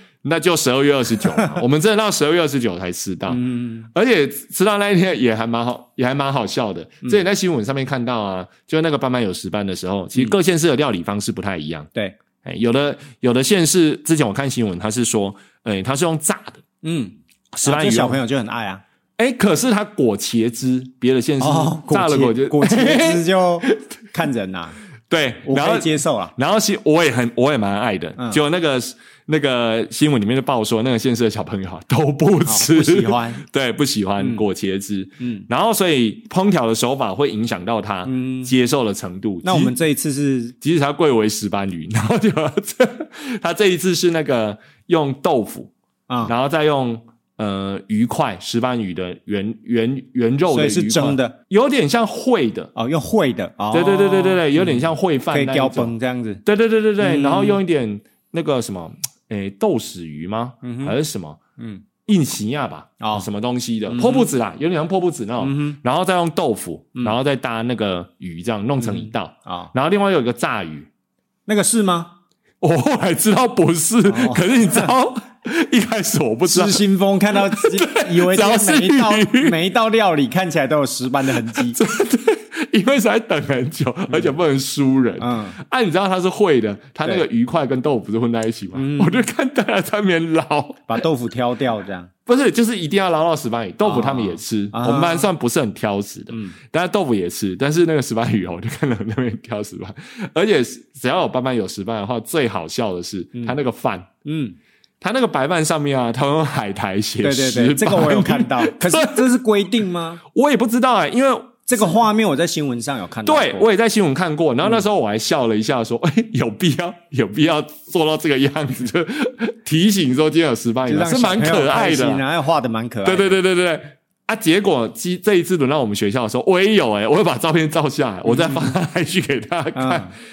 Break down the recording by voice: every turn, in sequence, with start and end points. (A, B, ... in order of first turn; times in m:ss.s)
0:00.2-0:03.4 A
0:01.2-0:01.6 B
0:03.3-0:03.9 B
0:03.9-0:11.9 A
0:12.4-0:16.6 A
0:16.8-0:18.8 B
0:17.5-0:18.2 A
0:19.2-0:23.7 A
0:21.4-0:24.8 B
0:25.1-0:39.7 A
0:25.4-0:26.3 B
0:32.4-0:33.4 B
0:34.2-0:34.4 B
0:35.2-0:35.4 B
0:38.0-0:38.5 B
0:39.4-0:40.5 B
0:40.6-0:45.7 A
0:46.2-0:52.7 A
0:50.5-0:51.4 B
0:52.8-0:56.4 B
0:53.7-0:55.9 A
0:56.4-1:01.4 A
0:57.0-0:57.6 B
1:00.6-1:01.0 B
1:01.6-1:01.8 B
1:02.0-1:10.9 A
1:03.0-1:03.2 B
1:03.9-1:04.3 B
1:05.4-1:05.8 B
1:08.8-1:09.7 B
1:11.5-1:12.1 B
1:12.6-1:19.6 A
1:14.0-1:14.9 B
1:16.5-1:21.8 B
1:21.5-1:31.0 A
1:25.2-1:25.6 B
1:28.7-1:29.2 B
1:30.9-1:32.1 B
1:32.3-1:44.1 A
1:33.8-1:35.3 B
1:44.2-1:44.6 B
1:45.0-1:49.3 A
1:47.2-1:50.2 B
1:50.3-1:52.0 A
1:51.7-1:53.7 B
1:53.2-2:02.2 A
2:00.9-2:03.4 B
2:03.0-2:10.1 A
2:08.2-2:08.7 B
2:09.7-2:10.1 B